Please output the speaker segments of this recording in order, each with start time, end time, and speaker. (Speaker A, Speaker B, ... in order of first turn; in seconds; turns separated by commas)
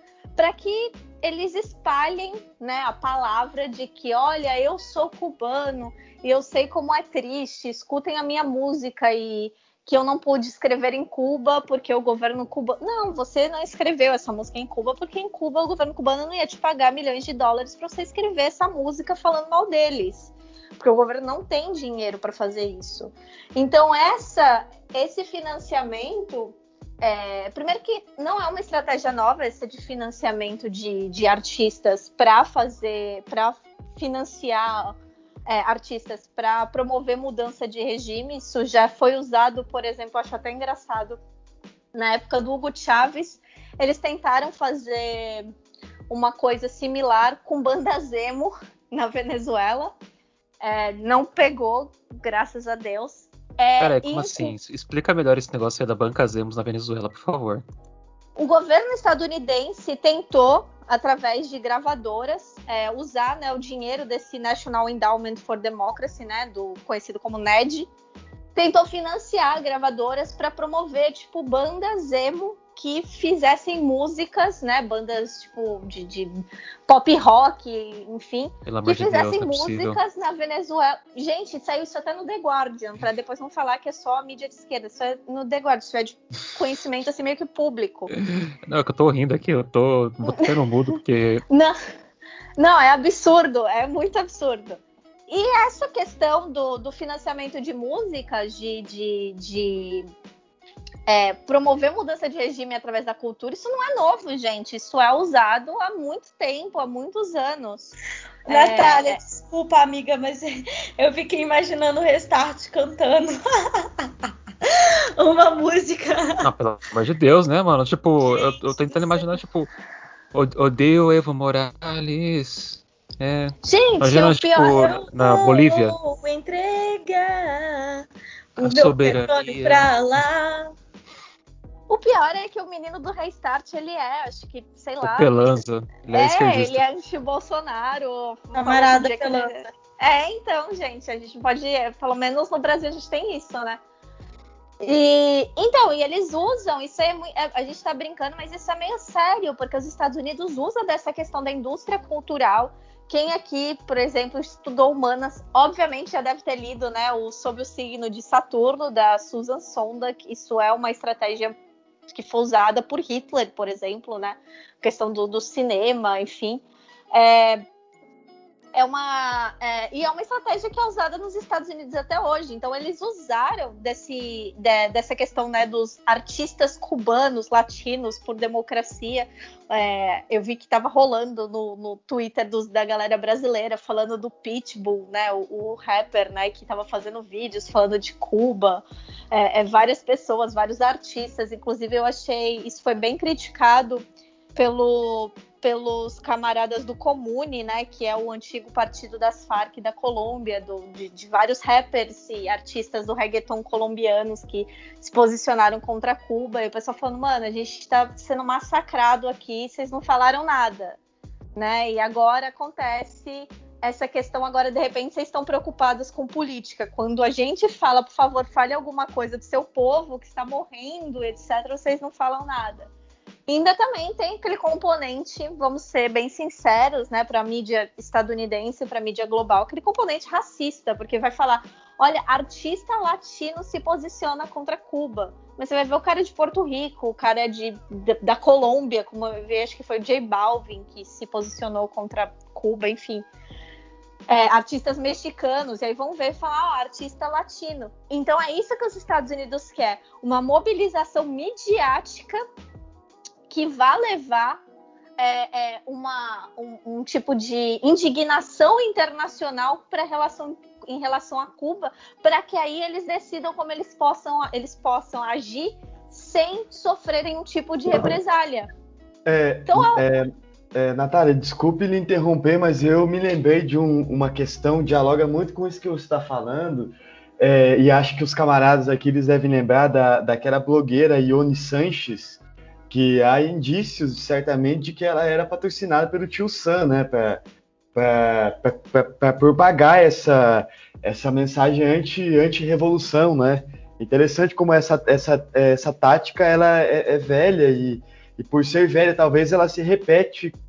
Speaker A: 0.3-34.9, Speaker A: 35.5-41.2, Speaker A: 41.9-45.5, Speaker A: 46.1-49.9, Speaker A: 50.6-54.5, Speaker B: 53.8-57.6, Speaker A: 58.4-67.9, Speaker A: 68.5-76.3, Speaker A: 76.9-88.1, Speaker B: 78.7-80.0, Speaker B: 88.3-91.4, Speaker A: 90.2-90.5, Speaker A: 91.5-91.8, Speaker A: 92.6-100.0, Speaker A: 101.1-109.2, Speaker C: 108.5-114.1, Speaker C: 115.2-116.4, Speaker B: 116.4-119.7, Speaker C: 118.9-119.2, Speaker B: 120.3-126.0, Speaker A: 123.6-124.8, Speaker C: 124.7-128.0, Speaker C: 128.6-130.7, Speaker B: 128.6-129.9, Speaker A: 131.9-135.5, Speaker B: 135.0-136.8, Speaker A: 136.1-143.8, Speaker C: 138.5-139.6, Speaker A: 144.8-161.6, Speaker A: 162.1-166.6, Speaker A: 167.1-167.6, Speaker A: 168.7-194.0, Speaker A: 194.5-211.0, Speaker A: 211.5-222.9, Speaker A: 223.5-243.2, Speaker A: 244.3-252.4, Speaker A: 253.5-254.6, Speaker A: 255.2-268.7, Speaker D: 269.2-287.4, Speaker A: 269.7-270.0, Speaker D: 287.9-300.6